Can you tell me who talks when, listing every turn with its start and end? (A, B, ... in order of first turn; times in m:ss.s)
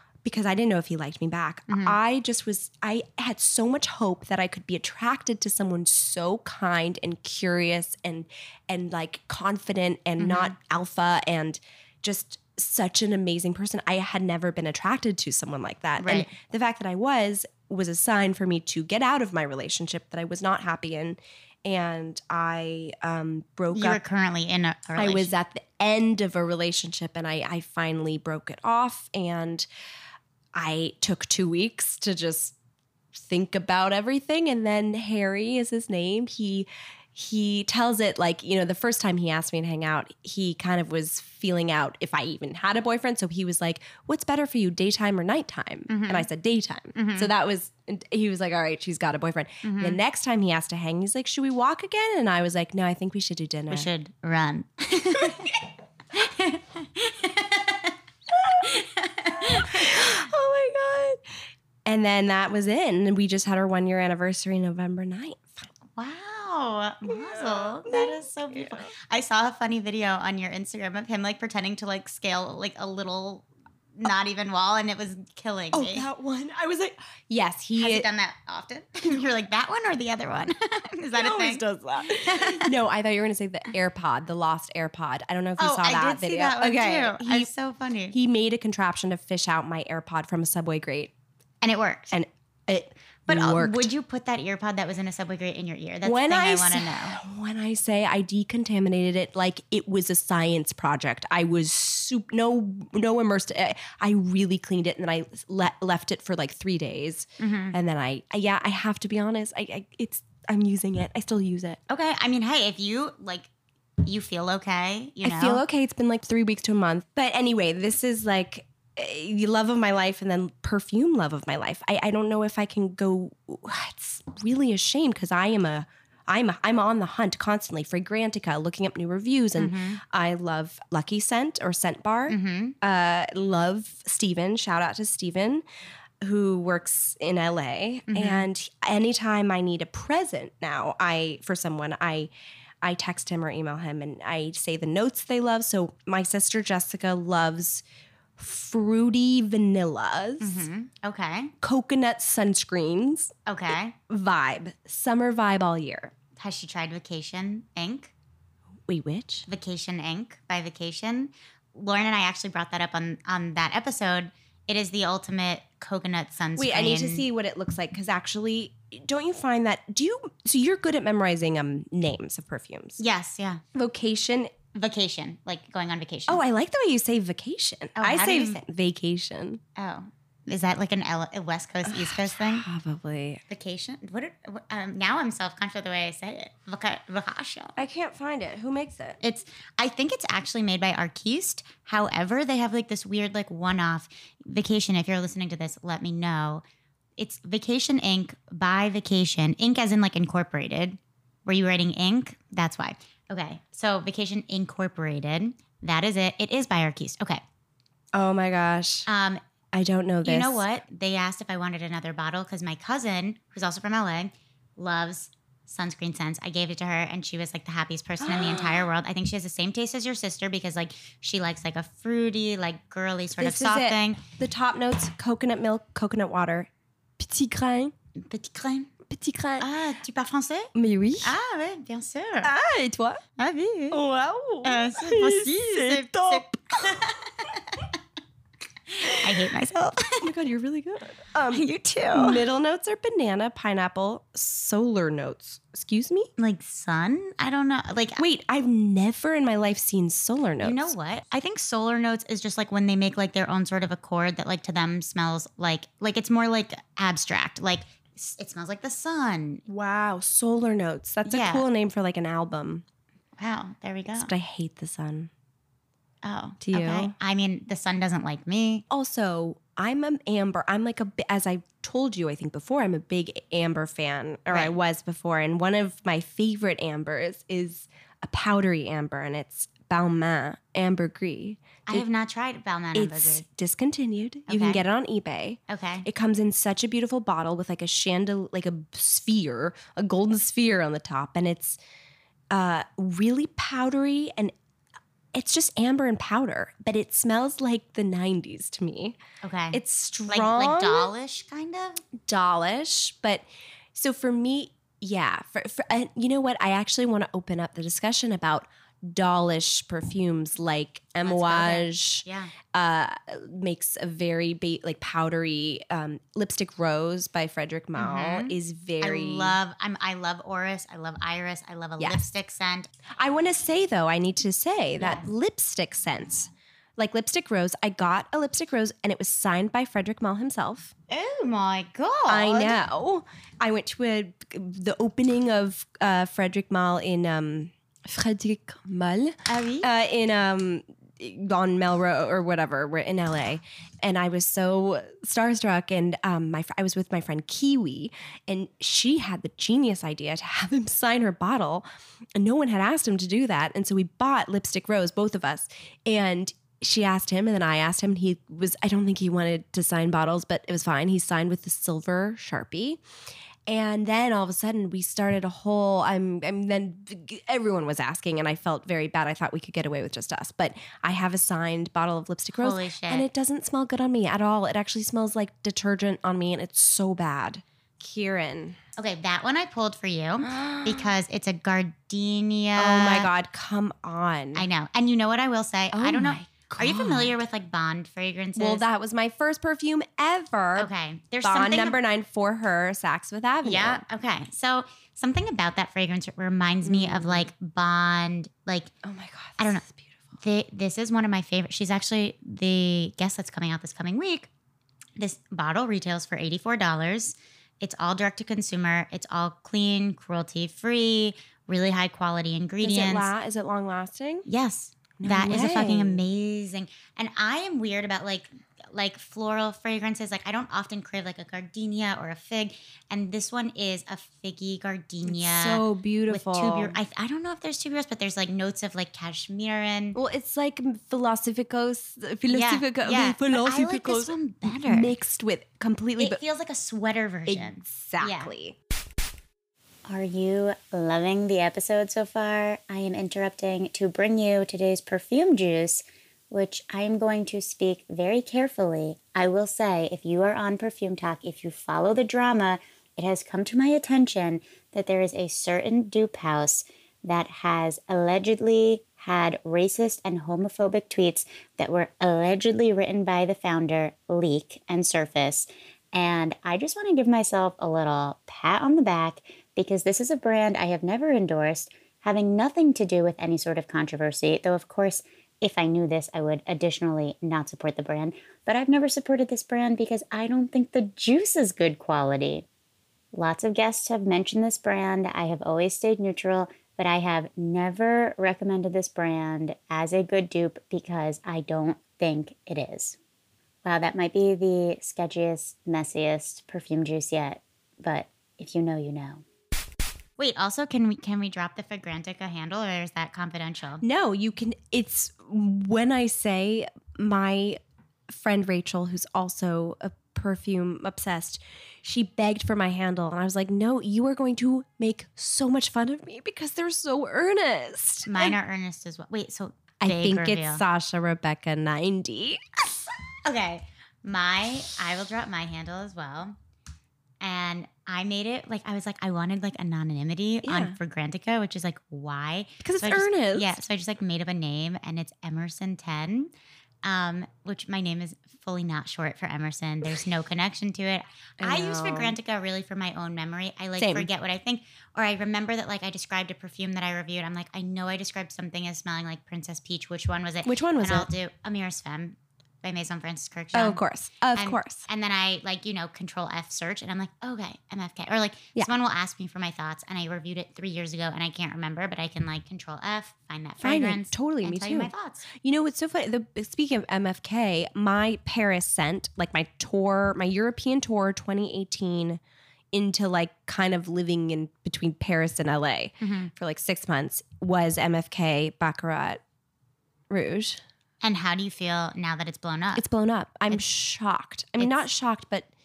0:00.2-0:24.0 A
0:01.7-0:02.0 B
0:10.2-0:10.5 B
0:16.0-0:16.3 B
0:23.7-0:25.3 B
0:25.0-0:29.7 A
0:30.5-0:32.5 A
0:33.1-0:53.9 A
0:45.9-0:46.3 B
0:46.9-0:47.3 B
0:49.6-0:50.0 B
0:53.7-0:57.9 B
0:58.3-1:01.2 A
0:58.6-1:00.0 B
1:01.8-1:05.6 A
1:06.0-1:16.1 B
1:07.0-1:08.9 A
1:15.7-1:18.1 A
1:17.8-1:22.7 B
1:21.2-1:27.5 A
1:25.6-1:28.1 B
1:28.1-1:31.1 A
1:31.6-1:32.1 B
1:32.1-1:33.9 A
1:33.3-1:37.2 B
1:36.0-1:51.8 A
1:47.4-1:47.8 B
1:51.9-1:53.5 B
1:54.0-1:55.6 B
1:55.2-2:15.6 A
2:09.6-2:10.0 B
2:12.3-2:12.8 B
2:16.2-2:22.3 A
2:18.1-2:18.4 B
2:22.8-2:27.8 A
2:28.4-2:30.7 A
2:30.4-2:31.5 B
2:31.6-2:33.3 A
2:33.4-2:34.0 B
2:34.1-2:36.1 A
2:36.4-2:38.1 B
2:38.9-2:39.4 A
2:39.5-2:47.2 B
2:46.6-2:53.0 A
2:53.0-2:53.6 B
2:53.7-2:54.5 A
2:54.7-2:56.4 B
2:56.3-2:59.6 A
2:58.0-2:58.6 B
2:59.8-3:02.6 B
3:01.8-3:03.4 A
3:03.5-3:07.8 B
3:07.8-3:09.2 A
3:09.2-3:16.6 B
3:17.2-3:27.4 B
3:28.1-3:29.1 A
3:29.1-3:29.4 B
3:29.7-3:30.6 A
3:30.2-3:44.2 B
3:38.2-3:38.9 A
3:43.4-3:47.9 A
3:48.2-3:48.9 B
3:49.1-3:49.7 A
3:49.6-3:50.7 B
3:50.7-3:51.4 A
3:51.2-3:52.5 B
3:52.4-3:53.2 A
3:53.4-3:54.0 B
3:53.9-3:57.1 A
3:54.6-3:57.9 B
3:58.9-4:00.3 B
4:00.2-4:06.3 A
4:01.5-4:02.4 B
4:06.4-4:08.2 B
4:08.2-4:10.9 A
4:10.6-4:19.6 B
4:19.7-4:22.8 A
4:21.2-4:21.6 B
4:23.4-4:24.3 B
4:24.2-4:25.3 A
4:26.2-4:28.8 B
4:26.6-4:27.1 A
4:28.9-4:42.1 A
4:34.5-4:34.8 B
4:41.9-4:43.4 B
4:42.9-4:51.8 A
4:44.5-4:44.8 B
4:45.7-4:46.1 B
4:52.5-4:54.5 A
4:55.3-4:59.2 A
4:59.4-5:02.0 B
4:59.7-5:01.1 A
5:02.2-5:19.6 A
5:11.2-5:12.5 B
5:18.0-5:22.9 B
5:22.0-5:22.2 A
5:23.2-5:30.9 A
5:25.0-5:25.3 B
5:31.1-5:32.8 B
5:32.3-5:51.8 A
5:39.5-5:39.9 B
5:52.4-6:03.0 A
6:03.7-6:18.8 A
6:12.5-6:13.3 B
6:19.0-6:23.3 B
6:20.4-6:21.1 A
6:22.8-6:24.6 A
6:24.5-6:28.8 B
6:25.9-6:27.4 A
6:28.6-6:30.9 A
6:30.8-6:32.0 B
6:31.4-6:34.0 A
6:33.6-6:38.9 B
6:36.8-6:37.5 A
6:39.0-6:40.2 A
6:39.6-6:39.8 B
6:40.4-6:44.5 B
6:45.2-6:53.3 B
6:52.8-6:54.5 A
6:54.5-7:10.2 B
6:55.2-6:56.2 A
7:05.2-7:07.0 A
7:10.1-7:16.4 A
7:12.5-7:15.1 B
7:16.2-7:18.5 B
7:17.5-7:18.8 A
7:20.1-8:02.6 B
8:03.3-8:13.2 B
8:13.8-8:19.4 B
8:20.4-8:24.0 B
8:24.0-8:38.6 A
8:38.3-8:40.8 B
8:40.0-8:42.8 A
8:43.4-8:46.5 B
8:47.4-8:56.5 B
8:50.6-8:51.0 A
8:52.8-8:53.8 A
8:57.0-9:14.0 B
9:01.6-9:02.4 A
9:04.0-9:04.3 A
9:10.6-9:11.3 A
9:13.7-9:15.0 A
9:14.5-9:25.4 B
9:23.8-9:32.4 A
9:32.9-9:39.4 A
9:36.2-9:36.5 B
9:40.3-9:40.8 A
9:41.2-9:43.1 B
9:43.0-9:45.7 A
9:44.8-9:45.1 B